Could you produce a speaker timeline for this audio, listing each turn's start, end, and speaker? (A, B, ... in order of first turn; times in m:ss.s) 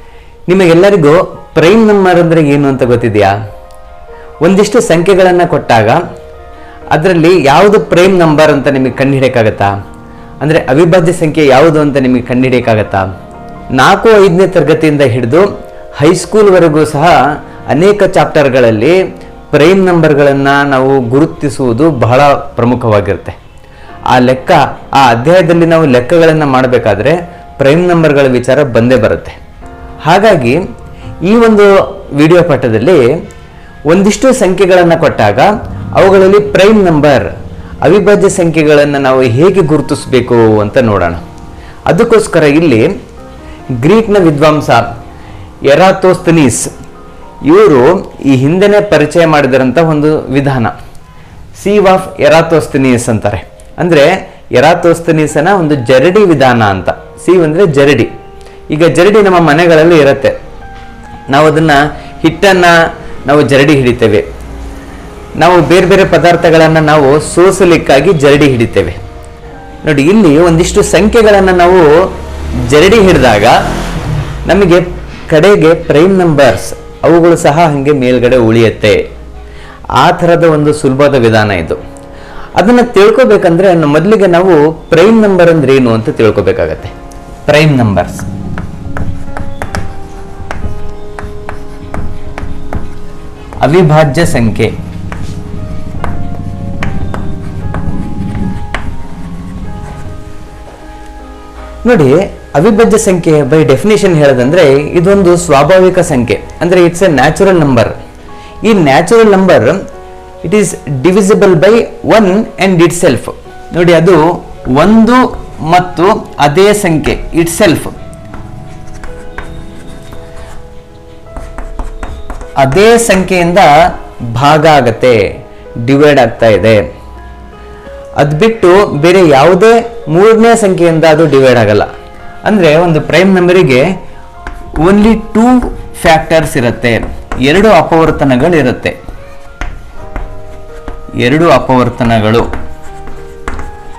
0:00.5-0:03.3 A
0:04.4-0:06.0 A
0:06.9-0:09.7 A
0:10.4-0:13.0 A
0:13.7-0:15.4 A
0:16.0-0:17.2 A
0:17.7-0:19.0 A
0:19.5-0:23.4 A
0:24.1-0:29.4 A
0:30.1-0:30.6 A
0:31.2-0:33.0 A
0:33.9-0:37.3 A
0:37.8-0:41.2 A
0:41.9-0:42.9 A
0:43.8-0:44.8 A
0:45.7-0:46.7 A
0:47.4-0:50.7 A
0:51.6-0:58.1 A
0:58.7-1:00.3 A
1:01.3-1:02.7 A
1:03.2-1:04.2 A
1:05.4-1:09.0 A
1:09.8-1:11.9 A
1:12.7-1:13.5 A
1:14.4-1:19.0 A
1:20.0-1:21.8 A
1:22.6-1:26.9 A
1:27.4-1:28.2 A
1:33.6-1:34.7 A
1:41.8-1:47.9 A
1:48.6-1:49.8 A
1:50.4-1:54.2 A
1:54.8-1:57.9 A
2:02.6-2:03.7 A
2:04.3-2:05.2 A
2:05.8-2:06.8 A
2:08.2-2:11.9 A
2:12.4-2:13.8 A
2:14.8-2:19.0 A
2:21.2-2:22.5 A